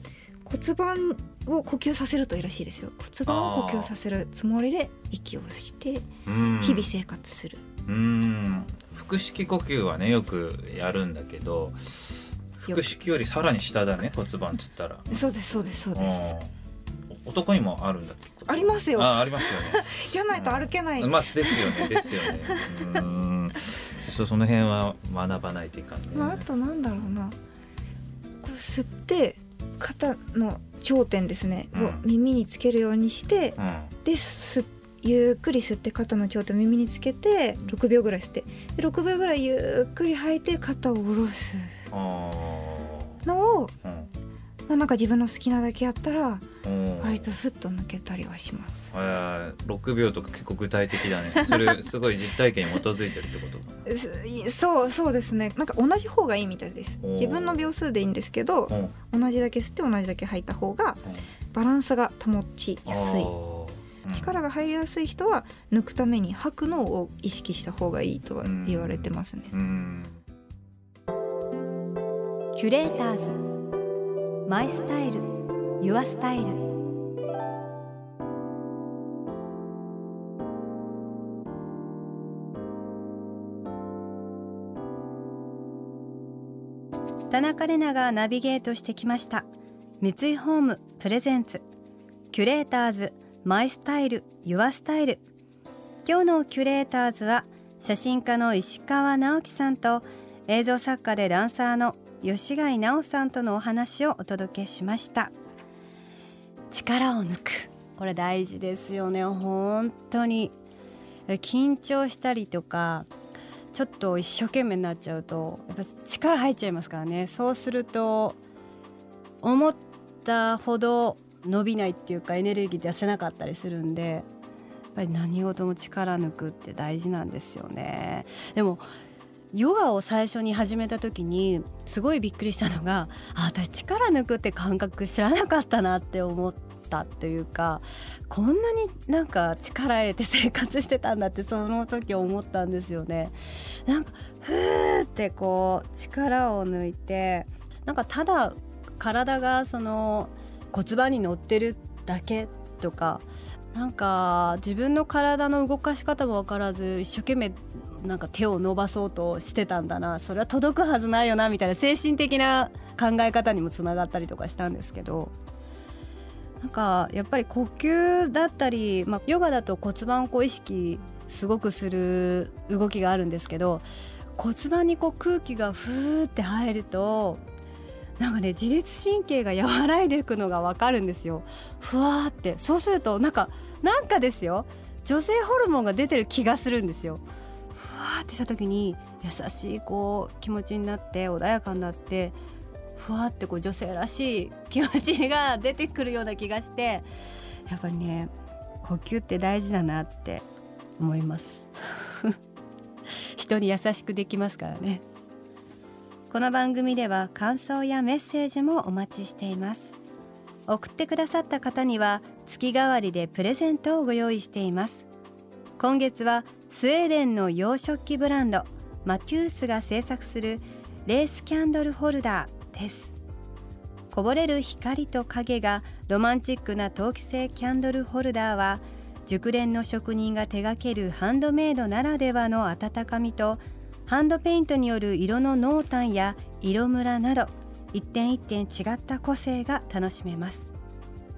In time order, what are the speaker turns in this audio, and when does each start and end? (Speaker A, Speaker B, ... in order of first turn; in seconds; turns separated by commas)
Speaker A: 0.5-6.1, Speaker B: 3.3-3.9, Speaker B: 6.3-6.9, Speaker A: 6.6-7.6, Speaker B: 7.9-15.1, Speaker A: 15.1-16.3, Speaker B: 15.9-16.5, Speaker B: 17.1-26.5, Speaker A: 18.5-22.8, Speaker A: 26.1-27.4, Speaker A: 28.4-41.8, Speaker B: 31.7-32.1, Speaker B: 33.6-33.9, Speaker B: 41.9-43.2, Speaker A: 43.2-43.7, Speaker B: 43.8-44.1, Speaker A: 44.7-46.4, Speaker B: 46.6-47.3, Speaker A: 47.0-48.9, Speaker B: 48.9-53.8, Speaker A: 51.4-51.8, Speaker A: 53.9-61.0, Speaker B: 57.0-57.7, Speaker B: 58.7-59.0, Speaker A: 61.5-63.3, Speaker B: 62.9-64.4, Speaker A: 64.1-69.5, Speaker B: 68.4-70.2, Speaker C: 72.5-73.4, Speaker C: 74.5-76.7, Speaker C: 87.3-89.5, Speaker C: 90.0-91.6, Speaker C: 92.3-95.2, Speaker C: 96.0-105.3, Speaker C: 106.7-110.5, Speaker C: 111.3-113.1, Speaker C: 113.7-118.4, Speaker C: 119.4-124.3, Speaker C: 125.0-128.8, Speaker C: 129.5-165.3, Speaker C: 166.6-177.4, Speaker C: 178.2-187.2, Speaker C: 187.8-192.4, Speaker C: 193.0-197.1, Speaker C: 197.7-198.3, Speaker C: 198.8-200.4, Speaker C: 201.0-202.4, Speaker C: 203.3-205.0, Speaker C: 206.3-209.9, Speaker C: 210.7-215.1, Speaker C: 215.8-223.1, Speaker C: 224.1-240.7